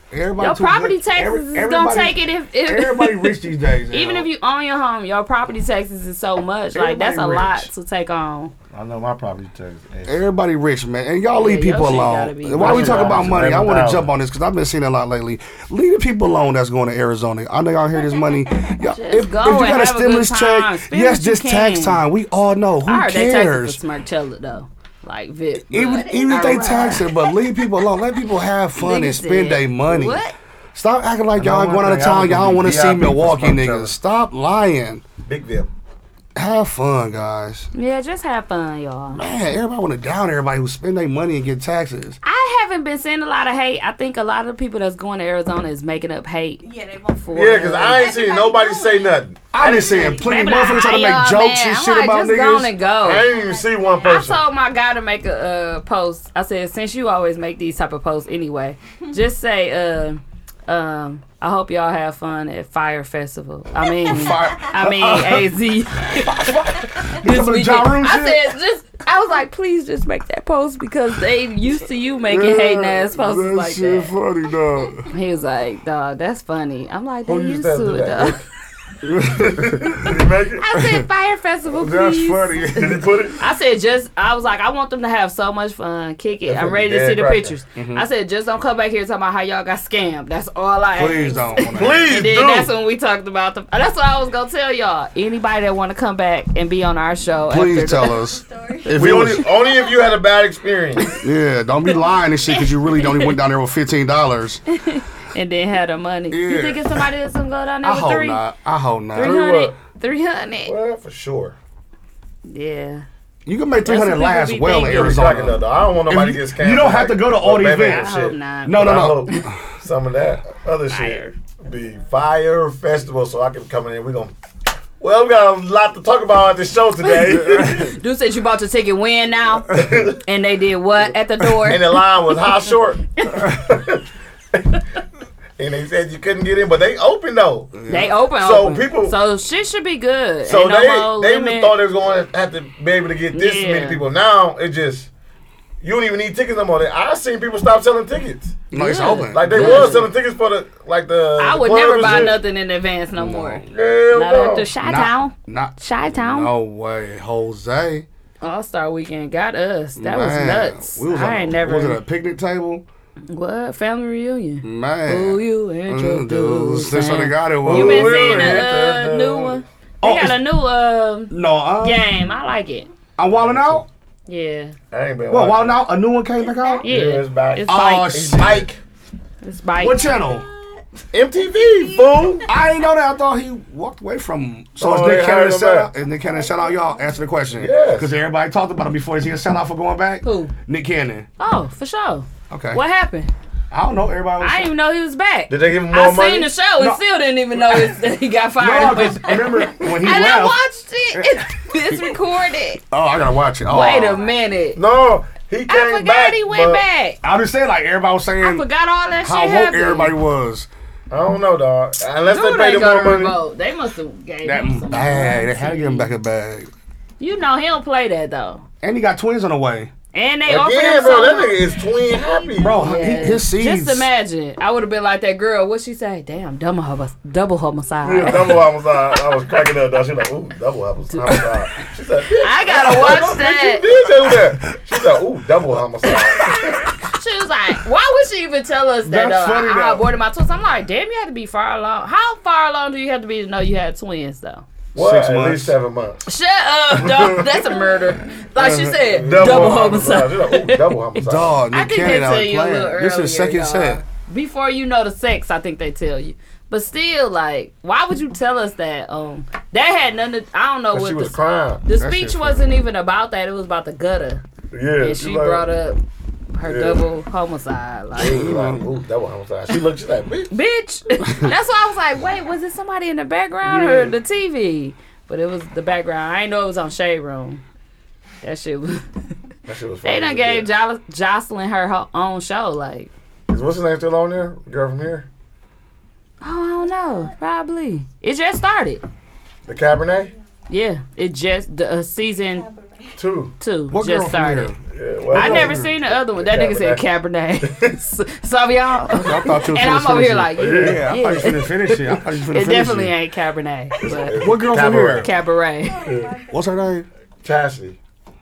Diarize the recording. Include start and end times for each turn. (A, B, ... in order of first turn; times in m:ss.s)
0:00.1-0:04.3 A
0:00.4-0:08.5 B
0:06.7-0:07.7 A
0:08.7-0:10.2 C
0:10.0-0:23.8 A
0:11.3-0:13.3 B
0:12.6-0:14.1 C
0:18.0-0:18.7 D
0:18.8-0:22.0 B
0:22.8-0:27.1 B
0:25.7-0:35.0 A
0:25.7-0:27.5 D
0:28.7-0:30.3 B
0:31.4-0:33.9 C
0:35.2-0:35.7 C
0:36.4-0:37.7 A
0:37.7-0:39.3 B
0:39.1-0:42.2 A
0:42.2-0:46.6 B
0:46.6-0:50.1 D
0:47.2-0:48.1 B
0:47.3-0:50.2 C
0:49.5-0:52.7 A
0:49.7-0:53.2 B
0:53.0-0:54.4 C
0:53.2-0:54.3 D
0:54.0-1:06.5 B
1:04.0-1:05.5 A
1:04.1-1:04.4 D
1:06.1-1:08.5 A
1:07.0-1:14.1 B
1:12.3-1:15.1 A
1:15.1-1:18.4 B
1:17.2-1:18.4 C
1:19.0-1:20.2 A
1:19.1-1:20.7 C
1:20.6-1:22.6 B
1:20.8-1:21.0 A
1:21.7-1:23.3 A
1:22.7-1:23.4 C
1:23.4-1:38.2 B
1:26.5-1:27.6 C
1:27.8-1:28.0 A
1:31.0-1:32.1 A
1:31.2-1:31.7 D
1:31.7-1:32.7 C
1:37.5-1:39.4 A
1:38.1-1:40.0 D
1:38.9-1:41.1 C
1:41.1-1:44.6 A
1:42.4-1:43.4 B
1:44.7-1:48.4 B
1:46.3-1:47.1 A
1:47.8-1:49.4 A
1:49.1-1:50.7 B
1:49.2-1:49.7 C
1:50.6-1:51.5 C
1:52.4-1:53.1 B
1:53.4-1:59.6 A
1:53.8-1:55.2 B
1:54.8-2:04.3 C
1:58.0-1:59.5 B
2:00.9-2:01.3 B
2:05.0-2:07.9 C
2:07.0-2:12.3 B
2:07.3-2:07.9 A
2:09.7-2:10.1 A
2:09.7-2:10.2 C
2:11.4-2:11.7 A
2:11.7-2:14.0 C
2:13.2-2:13.5 B
2:13.4-2:13.6 A
2:15.6-2:19.2 C
2:17.7-2:18.1 A
2:17.9-2:21.7 B
2:20.4-2:25.1 C
2:23.3-2:24.0 B
2:25.8-2:28.7 C
2:28.7-2:30.1 A
2:28.7-2:30.1 B
2:29.3-2:32.4 C
2:31.4-2:36.5 B
2:33.1-2:33.7 A
2:33.7-2:34.7 C
2:34.8-2:38.0 A
2:38.4-2:42.0 B
2:40.0-2:42.8 A
2:43.3-2:52.9 B
2:44.6-2:48.6 A
2:47.6-2:49.6 C
2:50.0-2:50.4 A
2:51.3-2:52.0 A
2:53.2-2:53.8 A
2:53.3-2:53.8 C
2:54.3-2:54.7 B
2:54.9-2:55.8 C
2:55.3-2:56.9 A
2:56.4-2:56.9 D
2:56.8-2:58.2 B
2:56.8-2:58.8 C
2:57.6-2:58.8 A
2:59.4-3:00.1 B
2:59.8-3:00.5 A
2:59.8-3:02.9 D
3:01.1-3:02.4 C
3:02.5-3:11.3 A
3:04.8-3:05.9 C
3:06.0-3:07.4 D
3:07.6-3:08.1 C
3:10.2-3:10.5 B
3:11.4-3:13.3 B
3:12.5-3:12.8 A
3:13.7-3:14.6 A
3:14.4-3:22.8 B
3:15.5-3:16.5 C
3:17.6-3:17.9 A
3:18.6-3:20.6 A
3:21.1-3:22.0 A
3:22.9-3:24.2 A
3:23.7-3:24.8 B
3:24.8-3:26.8 C
3:25.7-3:27.2 B
3:27.2-3:28.6 A
3:28.4-3:30.1 B
3:29.2-3:30.7 A
3:31.1-3:33.4 C
3:32.3-3:36.1 B
3:34.4-3:36.7 A
3:37.2-3:38.6 B
3:38.8-3:39.9 A
3:40.1-3:41.6 B
3:40.5-3:42.9 C
3:41.0-3:43.4 D
3:42.6-3:44.1 A
3:42.7-3:48.6 B
3:48.0-3:56.7 C
3:51.1-3:51.5 B
3:52.4-3:53.8 B
3:53.0-3:53.3 A
3:56.0-4:04.6 B
3:56.4-3:56.6 A
3:59.0-4:00.0 A
4:04.9-4:05.7 A
4:04.9-4:06.3 C
4:06.2-4:11.0 B
4:07.0-4:07.6 C
4:08.6-4:09.8 A
4:09.0-4:11.6 C
4:11.2-4:14.0 A
4:11.7-4:24.4 B
4:20.9-4:21.8 C
4:22.0-4:22.8 A
4:24.7-4:25.7 C
4:25.0-4:26.0 B
4:26.5-4:28.5 B
4:26.6-4:27.0 C
4:28.1-4:30.5 C
4:28.2-4:28.8 A
4:30.5-4:37.6 B
4:33.7-4:34.1 C
4:38.4-4:39.1 B
4:39.7-4:40.7 C
4:40.0-4:43.1 B
4:43.5-4:45.3 C
4:46.4-4:49.0 B
4:46.8-4:47.3 D
4:49.6-4:50.3 C
4:50.0-4:50.4 D
4:50.7-4:52.7 B
4:52.4-4:53.2 D
4:53.2-4:53.5 C
4:53.6-4:54.7 B
4:53.9-4:54.8 A
4:54.9-4:57.0 C
4:55.3-4:55.9 A
4:55.3-5:01.7 B
4:57.6-4:58.0 C
4:59.1-5:03.1 A
5:00.6-5:01.6 C
5:02.5-5:04.4 B
5:04.0-5:05.3 C
5:04.4-5:05.3 A
5:05.1-5:06.1 B
5:05.8-5:07.0 D
5:06.0-5:06.3 C
5:06.5-5:07.0 A
5:07.4-5:08.0 C